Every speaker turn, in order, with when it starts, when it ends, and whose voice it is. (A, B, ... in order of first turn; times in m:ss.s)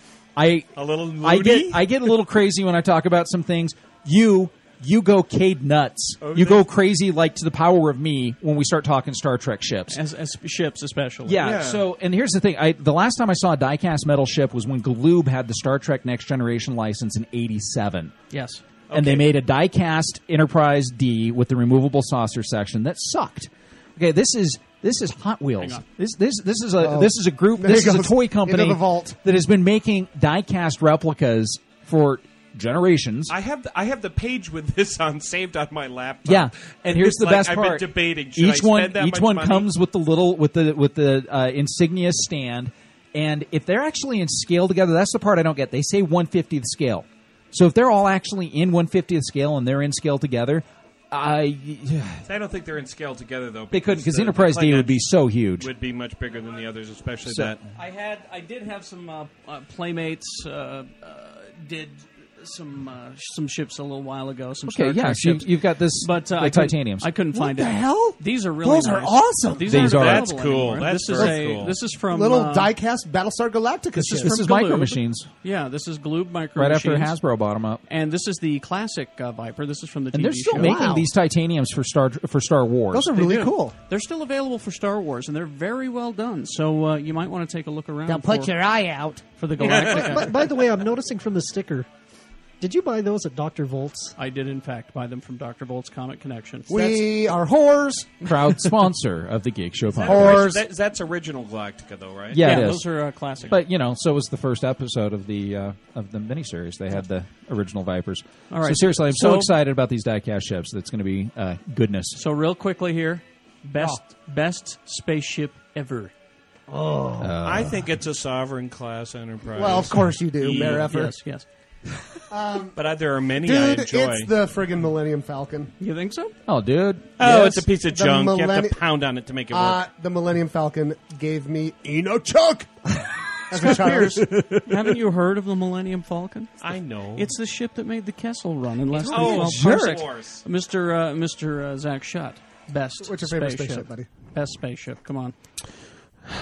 0:00.4-0:10.0 A
0:00.8-0:02.0 B
0:06.2-0:06.6 B
0:09.9-0:11.6 C
0:11.3-0:18.1 A
0:11.4-0:11.9 B
0:18.3-0:18.6 C
0:18.9-0:19.3 B
0:18.9-0:33.4 A
0:25.6-0:25.8 C
0:26.8-0:29.2 D
0:33.3-0:39.7 B
0:36.2-0:52.3 A
0:52.3-0:55.0 B
0:53.7-0:55.7 A
0:55.6-0:57.6 B
0:57.3-0:57.5 A
0:57.7-1:12.7 C
1:04.7-1:07.1 A
1:07.3-1:09.9 D
1:09.6-1:10.3 A
1:09.7-1:11.8 B
1:12.0-1:14.4 D
1:14.0-1:17.2 C
1:14.0-1:15.3 A
1:16.6-1:17.8 A
1:17.9-1:20.9 C
1:20.1-1:23.1 A
1:20.6-1:21.1 D
1:22.9-1:23.7 D
1:23.1-1:28.6 C
1:28.1-1:29.2 D
1:29.4-1:30.4 C
1:29.6-1:30.3 B
1:29.6-1:31.9 E
1:30.0-1:30.2 D
1:32.6-1:34.1 E
1:34.2-1:37.1 C
1:36.7-1:38.6 D
1:38.2-1:40.6 A
1:39.9-1:42.4 B
1:40.0-1:40.7 D
1:42.3-1:42.9 A
1:42.3-1:43.6 C
1:43.5-1:52.2 A
1:48.5-1:49.5 C
1:52.1-1:56.1 C
1:56.7-1:57.3 E
1:57.2-1:57.8 A
1:57.4-2:00.9 B
1:59.6-2:01.2 D
2:00.6-2:01.4 C
2:02.3-2:05.7 D
2:02.8-2:04.3 B
2:05.8-2:06.3 C
2:06.4-2:07.1 A
2:07.2-2:09.8 B
2:07.2-2:08.8 D
2:09.5-2:14.6 D
2:13.5-2:25.3 C
2:16.6-2:17.3 B
2:18.9-2:20.4 B
2:19.0-2:20.0 D
2:23.0-2:24.1 D